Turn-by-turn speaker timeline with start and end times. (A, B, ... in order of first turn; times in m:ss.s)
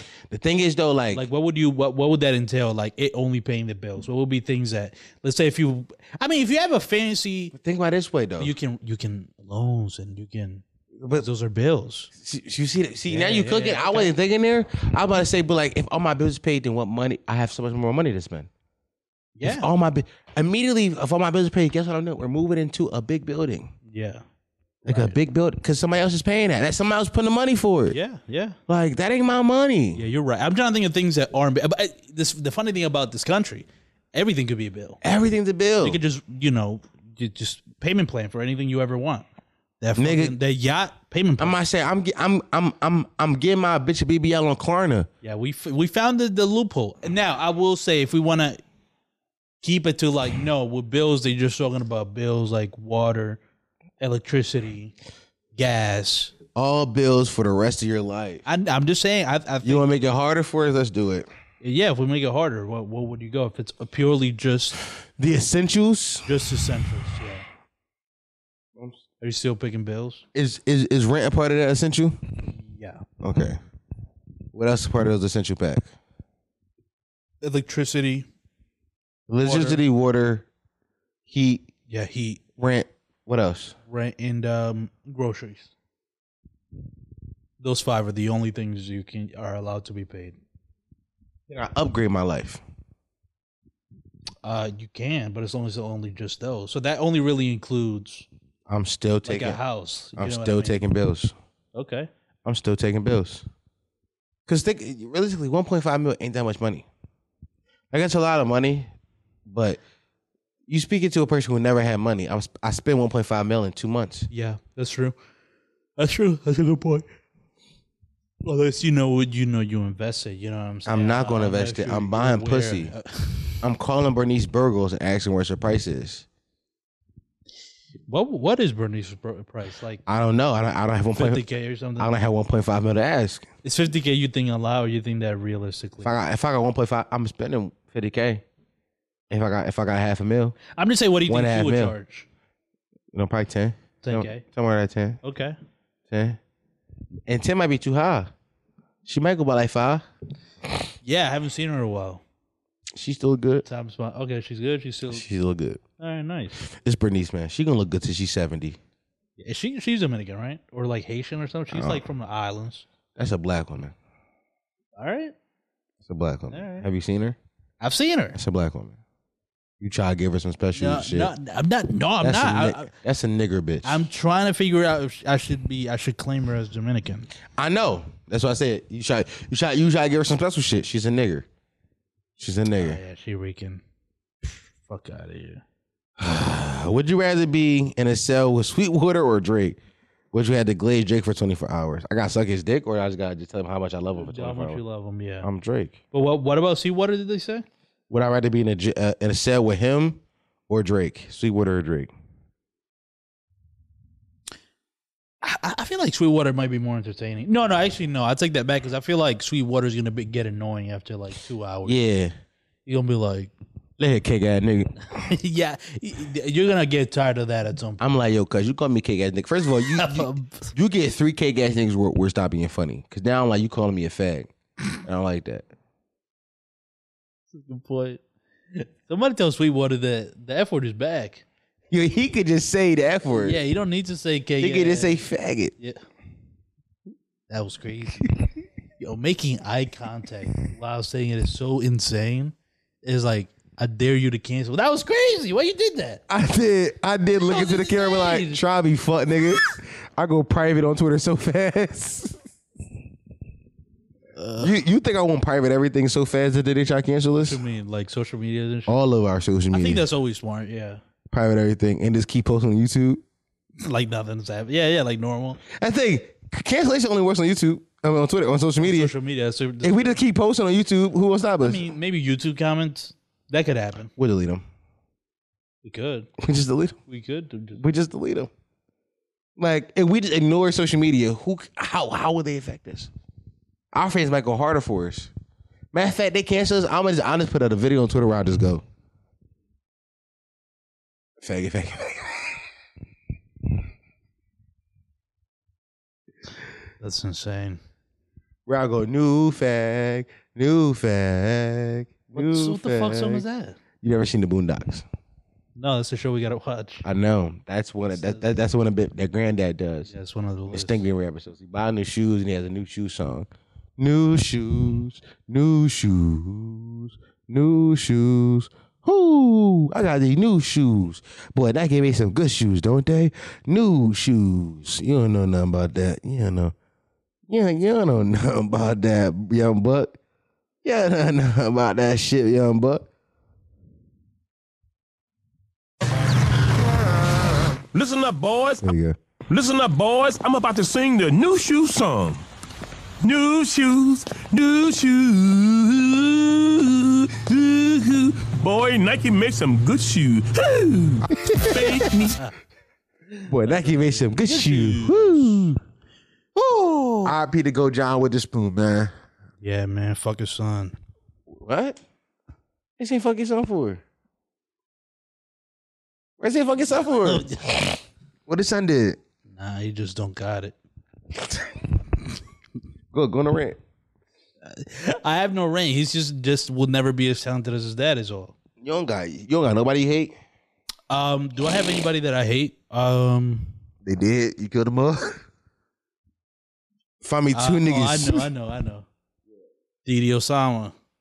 0:00.3-0:01.2 A
0:01.1-0:07.5 B
0:07.5-0:08.5 A
0:08.4-0:12.1 B
0:11.0-0:11.3 A
0:12.2-0:18.5 A
0:13.1-0:14.1 B
0:19.4-0:19.7 B
0:19.4-0:23.7 A
0:23.9-0:24.2 B
0:24.8-0:28.0 A
0:24.9-0:25.2 B
0:27.9-0:28.6 B
0:28.7-0:30.0 A
0:30.0-0:35.0 B
0:35.0-0:36.0 A
0:35.8-0:39.3 B
0:39.8-0:41.6 B
0:40.0-0:40.3 A
0:41.4-0:45.1 A
0:45.2-0:48.6 B
0:49.6-0:53.4 B
0:54.0-0:54.9 B
0:55.6-0:56.3 B
0:56.6-0:58.4 A
0:58.5-0:59.8 B
0:59.6-1:01.3 A
1:01.6-1:04.8 B
1:05.2-1:06.3 A
1:06.2-1:07.4 B
1:09.2-1:10.2 B
1:10.4-1:12.2 A
1:12.5-1:13.0 B
1:13.2-1:13.6 A
1:14.5-1:15.9 A
1:17.4-1:18.3 B
1:19.3-1:20.5 A
1:19.4-1:19.8 B
1:21.3-1:21.6 A
1:21.9-1:22.4 B
1:22.6-1:23.8 A
1:23.9-1:25.7 B
1:27.6-1:30.4 B
1:31.5-1:32.6 A
1:34.4-1:38.3 B
1:38.7-1:39.6 A
1:39.2-1:40.8 B
1:40.2-1:41.3 A
1:41.7-1:42.1 B
1:42.4-1:43.4 A
1:44.5-1:46.9 A
1:47.9-1:48.9 A
1:49.5-1:49.8 A
1:50.7-1:54.3 A
1:54.3-1:55.2 B
1:56.0-1:57.0 B
1:58.4-2:03.6 B
2:00.9-2:02.9 A
2:03.6-2:06.3 A
2:08.1-2:10.0 B
2:10.1-2:11.4 A
2:11.2-2:12.1 B
2:12.0-2:13.5 A
2:13.6-2:16.1 B
2:16.0-2:18.4 A
2:19.3-2:20.6 A
2:20.7-2:22.3 B
2:21.3-2:22.0 A
2:23.1-2:25.2 A
2:24.0-2:24.4 B
2:25.2-2:25.6 B
2:26.1-2:26.4 A
2:27.3-2:28.3 A
2:29.1-2:30.0 A
2:31.0-2:32.2 B
2:33.0-2:33.6 A
2:33.6-2:35.3 B
2:35.1-2:35.8 A
2:36.0-2:36.6 B
2:36.8-2:38.8 A
2:39.4-2:42.8 B
2:41.7-2:42.0 A
2:43.2-2:43.9 A
2:45.0-2:45.3 B
2:46.1-2:47.4 A
2:46.5-2:46.9 B
2:47.8-2:48.4 B
2:48.4-2:49.0 A
2:49.8-2:51.3 A
2:50.8-2:52.9 B
2:52.2-2:54.0 A
2:53.8-2:57.3 B
2:57.6-3:01.4 A
3:02.4-3:03.0 A
3:02.7-3:03.8 B
3:04.4-3:05.6 B
3:06.2-3:09.8 A
3:10.3-3:14.8 A
3:14.2-3:15.5 B
3:15.4-3:16.0 A
3:16.1-3:17.7 B
3:18.1-3:22.1 A
3:25.4-3:32.0 B
3:31.8-3:32.3 A
3:32.9-3:33.5 B
3:34.0-3:35.0 A
3:35.1-3:38.0 B
3:38.0-3:44.5 A
3:39.9-3:40.7 B
3:45.0-3:45.7 A
3:47.5-3:48.2 B
3:48.7-3:51.4 B
3:51.9-3:53.6 A
3:53.3-3:55.2 B
3:54.6-3:55.7 A
3:57.5-3:58.3 B
3:59.0-4:06.2 B
4:06.3-4:12.4 A
4:07.4-4:08.6 B
4:14.4-4:14.7 B
4:14.6-4:17.6 A
4:17.4-4:18.9 B
4:18.9-4:20.0 A
4:19.7-4:21.0 B
4:21.3-4:23.2 A
4:23.8-4:25.6 B
4:25.8-4:29.1 A
4:28.8-4:30.2 B
4:29.8-4:31.8 A
4:31.6-4:34.1 B
4:34.2-4:34.6 A
4:35.8-4:36.3 B
4:36.4-4:37.0 A
4:37.1-4:37.8 B
4:37.8-4:38.5 A
4:39.6-4:43.1 A
4:43.9-4:45.3 A
4:45.9-4:48.8 A
4:51.4-4:52.6 A
4:57.0-4:57.8 B
4:58.7-5:03.4 A
5:02.3-5:03.8 B
5:04.0-5:05.0 A
5:05.8-5:07.0 B
5:07.0-5:10.1 A
5:08.1-5:08.5 B
5:10.1-5:11.0 B
5:10.7-5:13.5 A
5:14.0-5:26.7 A
5:27.5-5:30.2 A
5:30.8-5:33.1 A
5:37.9-5:38.9 C
5:38.8-5:39.2 A
5:39.5-5:42.4 C
5:43.2-5:52.4 C
5:51.4-5:52.0 A
5:51.8-5:52.5 B
5:53.4-5:55.7 B
5:53.5-5:55.8 A
5:56.6-5:57.3 B
5:57.2-5:59.1 A
5:59.6-6:01.0 B
6:01.5-6:02.0 A
6:03.0-6:04.0 A
6:06.4-6:09.2 A
6:07.2-6:07.7 B
6:09.5-6:10.8 B
6:13.1-6:13.8 A
6:14.6-6:18.6 B
6:18.8-6:20.4 A
6:21.1-6:23.7 B
6:24.0-6:25.4 A
6:27.2-6:28.5 A
6:27.5-6:29.1 B
6:30.0-6:30.9 B